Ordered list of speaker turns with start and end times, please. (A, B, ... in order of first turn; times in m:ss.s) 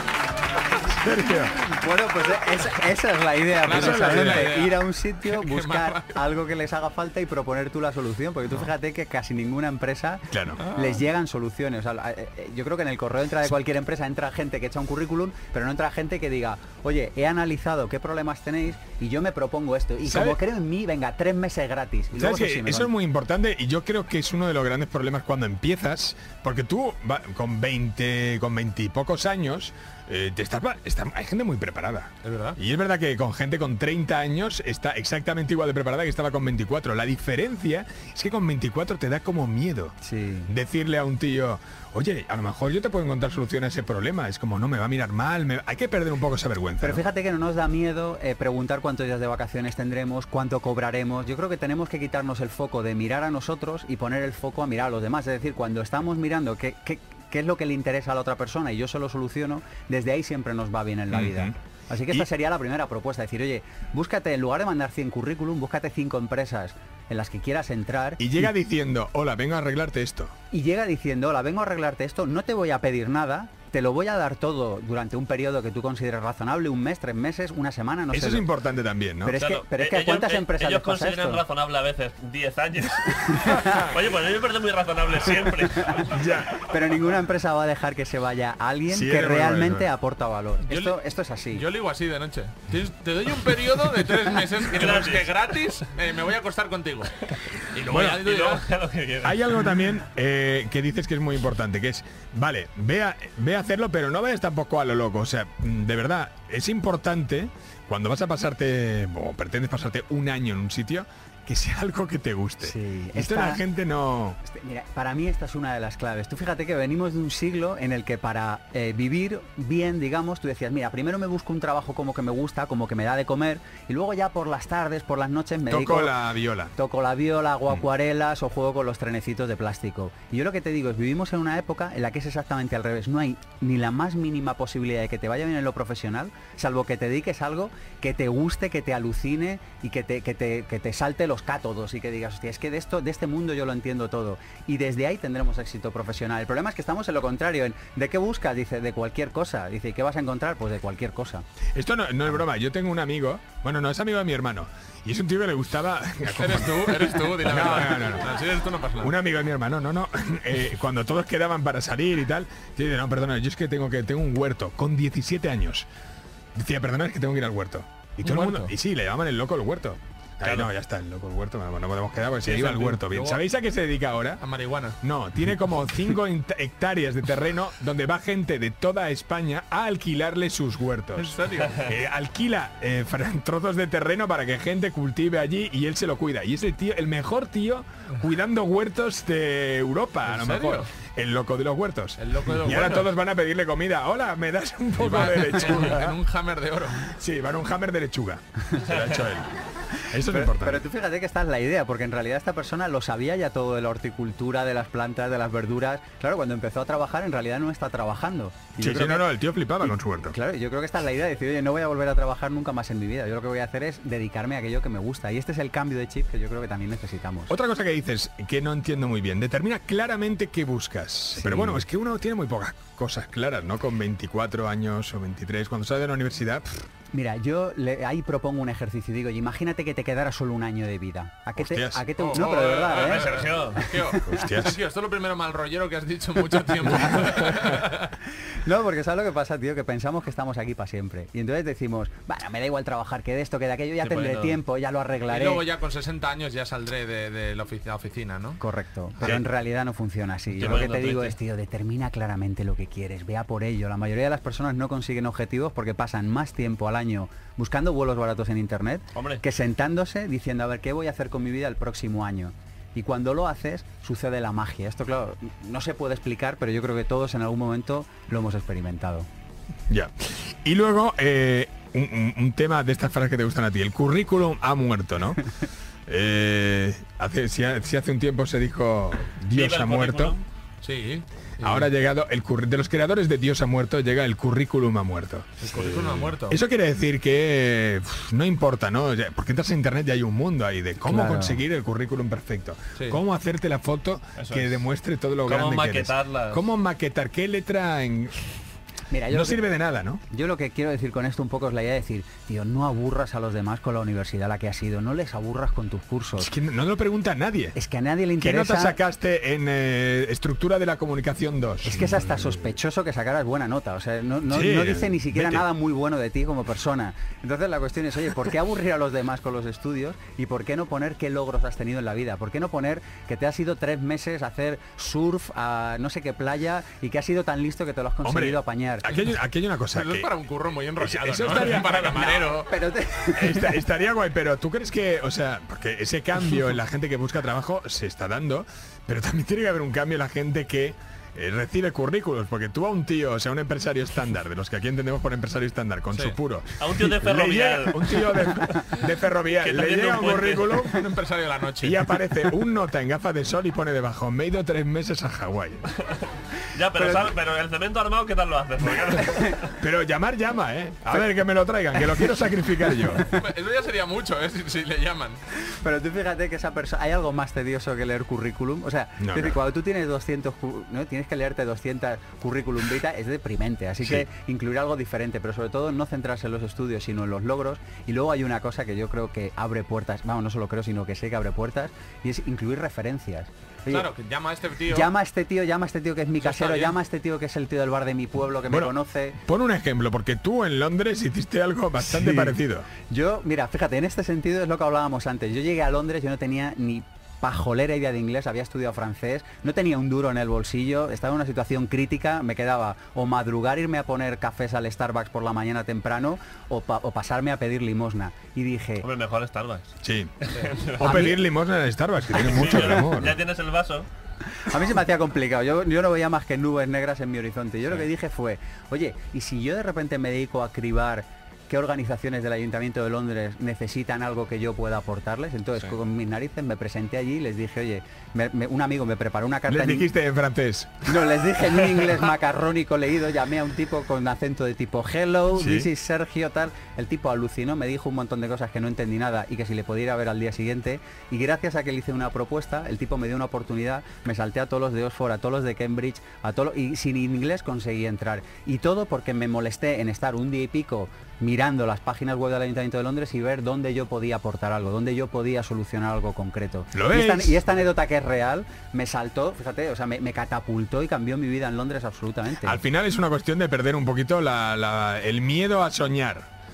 0:00.9-0:01.6 A
0:01.5-0:22.9 B
0:03.6-0:06.2 C
0:03.7-0:04.5 A
0:10.3-0:10.6 A
0:10.6-0:11.0 C
0:20.0-0:20.4 A
0:22.1-0:40.0 A
0:32.2-0:32.6 C
0:40.0-0:40.5 B
0:40.5-0:47.0 A
0:46.8-1:08.2 B
1:01.1-1:01.5 A
1:08.2-1:10.3 A
1:10.5-1:18.5 B
1:18.1-1:19.4 A
1:19.2-1:21.4 B
1:19.4-1:26.1 D
1:23.3-1:23.8 B
1:23.5-1:23.8 A
1:26.0-1:26.7 A
1:26.6-1:31.7 B
1:28.9-1:29.9 A
1:30.7-1:31.0 C
1:31.5-1:38.7 C
1:34.7-1:35.3 D
1:37.9-1:38.2 A
1:37.9-1:39.4 D
1:39.2-1:54.4 A
1:52.6-1:53.6 B
1:54.4-2:06.2 B
2:05.7-2:06.7 A
2:06.8-2:31.4 B
2:31.8-2:38.3 A
2:36.3-2:39.1 C
2:39.0-2:45.9 A
2:46.6-2:54.4 A
2:48.2-2:48.7 C
2:50.4-2:50.7 D
2:52.4-2:53.4 C
2:54.4-2:55.0 C
2:55.0-3:16.2 A
3:01.2-3:01.8 C
3:10.2-3:10.9 C
3:12.2-3:13.1 C
3:15.0-3:17.1 C
3:17.0-3:20.8 A
3:20.2-3:29.3 B
3:28.8-3:30.4 A
3:29.8-3:37.5 B
3:37.5-3:46.8 A
3:41.4-3:41.8 B
3:47.1-3:54.5 B
3:51.6-3:52.1 A
3:52.2-3:58.1 C
3:53.0-3:53.8 D
3:54.3-3:54.8 A
3:58.6-4:05.6 B
4:04.0-4:04.6 D
4:05.3-4:08.6 C
4:08.6-4:29.3 B
4:10.6-4:11.4 D
4:19.1-4:19.4 D
4:29.9-4:35.4 A
4:36.1-4:40.4 A
4:39.5-4:40.4 D
4:40.8-4:41.9 C
4:41.6-4:58.4 A
4:45.6-4:46.6 C
4:51.0-4:51.6 B
4:53.0-4:53.2 C
4:54.4-4:54.8 D
4:55.4-4:56.7 D
4:59.1-4:59.7 B
4:59.3-5:00.2 A
5:00.3-5:06.5 B
5:06.4-5:07.8 A
5:07.8-5:09.0 B
5:08.4-5:12.5 A
5:11.8-5:29.1 B
5:14.5-5:15.6 A
5:28.2-5:30.3 A
5:29.9-5:32.7 C
5:31.0-5:32.4 A
5:32.1-5:33.8 B
5:33.4-5:51.1 A
5:46.1-5:46.4 C
5:46.8-5:49.0 D
5:49.5-5:50.8 D
5:50.9-5:52.1 C
5:51.8-5:55.9 A
5:56.1-5:59.7 D
5:57.0-5:57.3 B
5:59.8-6:03.3 A
6:03.2-6:05.4 C
6:05.7-6:24.1 B
6:09.2-6:09.6 A
6:23.9-6:25.1 C
6:24.9-6:29.4 B
6:26.4-6:27.0 C
6:28.7-6:32.9 A
6:32.0-6:32.6 B
6:33.1-6:49.1 B
6:49.0-6:51.2 D
6:50.0-6:50.4 A
6:51.0-6:53.4 A
6:51.0-6:51.4 B
6:52.3-6:54.1 D
6:54.6-7:10.1 B
7:09.7-7:11.2 A
7:11.0-7:42.8 B
7:15.6-7:15.9 A
7:36.9-7:37.6 A
7:42.6-7:46.5 A